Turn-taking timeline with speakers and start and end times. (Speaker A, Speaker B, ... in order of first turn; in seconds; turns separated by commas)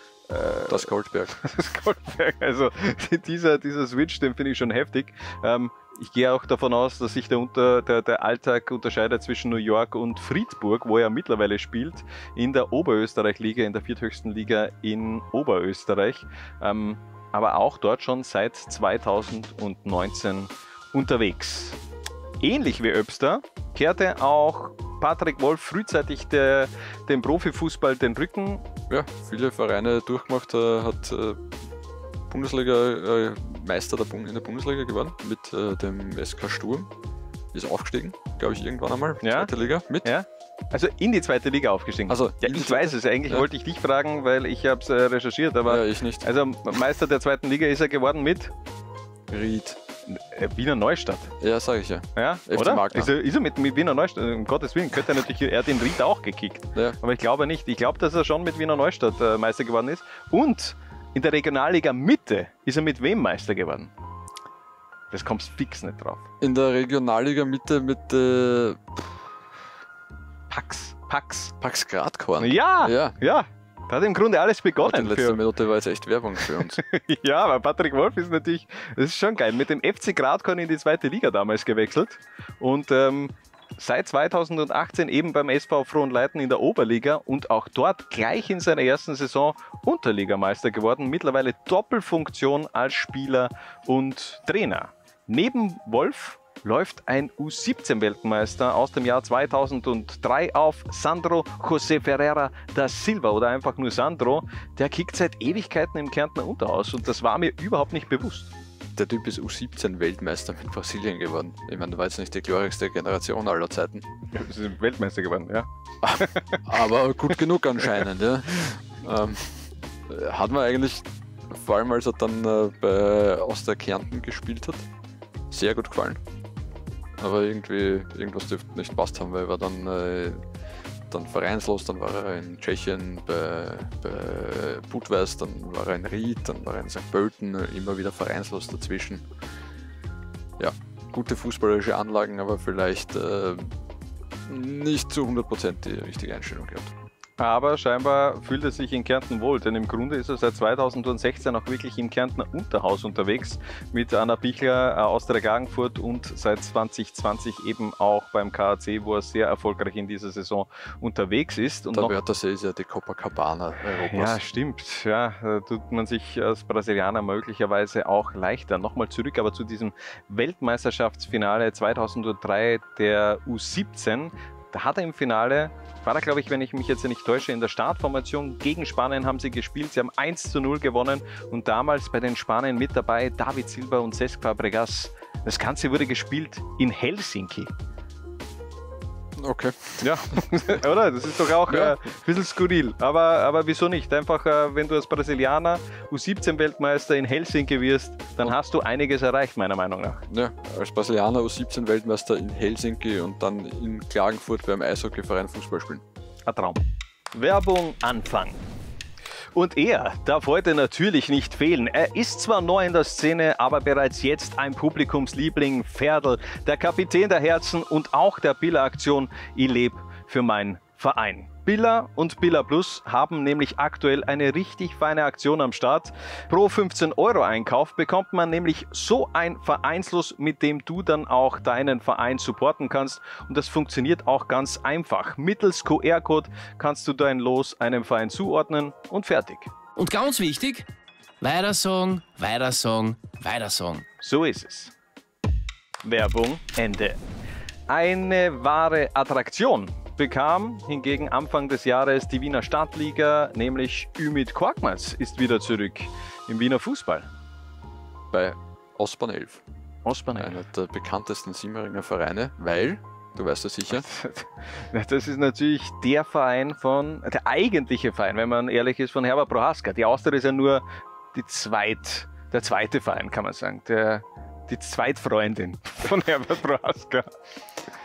Speaker A: 0.3-21.8, Speaker B: 0.7-1.4, Speaker A: 22.4-28.7, Speaker B: 28.9-31.5, Speaker B: 32.3-36.9, Speaker B: 37.5-40.1, Speaker A: 39.2-39.5, Speaker A: 40.0-48.5, Speaker B: 42.1-43.5, Speaker B: 45.6-46.2, Speaker B: 49.3-49.8, Speaker A: 50.1-51.3, Speaker B: 51.4-53.1, Speaker A: 52.1-63.9, Speaker A: 65.1-66.3, Speaker B: 66.4-68.9, Speaker A: 70.5-71.5, Speaker B: 71.6-73.2, Speaker A: 72.4-75.4, Speaker B: 74.8-76.8, Speaker A: 76.4-108.5, Speaker B: 109.0-114.0, Speaker A: 114.3-116.9, Speaker B: 116.0-124.8, Speaker B: 125.5-126.2, Speaker B: 127.2-130.4, Speaker B: 131.1-139.2, Speaker B: 140.6-143.7, Speaker B: 144.4-146.9, Speaker A: 147.4-162.1, Speaker B: 161.9-164.4, Speaker A: 163.9-187.7, Speaker B: 189.4-190.4, Speaker A: 190.0-200.2, Speaker B: 191.7-192.0, Speaker B: 200.3-206.0, Speaker A: 206.5-208.6, Speaker A: 209.5-239.7, Speaker C: 240.0-240.8, Speaker C: 241.4-244.0, Speaker A: 244.2-244.9, Speaker A: 246.0-247.2, Speaker A: 247.9-257.3, Speaker B: 258.3-259.6, Speaker A: 260.0-260.6, Speaker B: 260.4-264.1, Speaker A: 263.9-277.3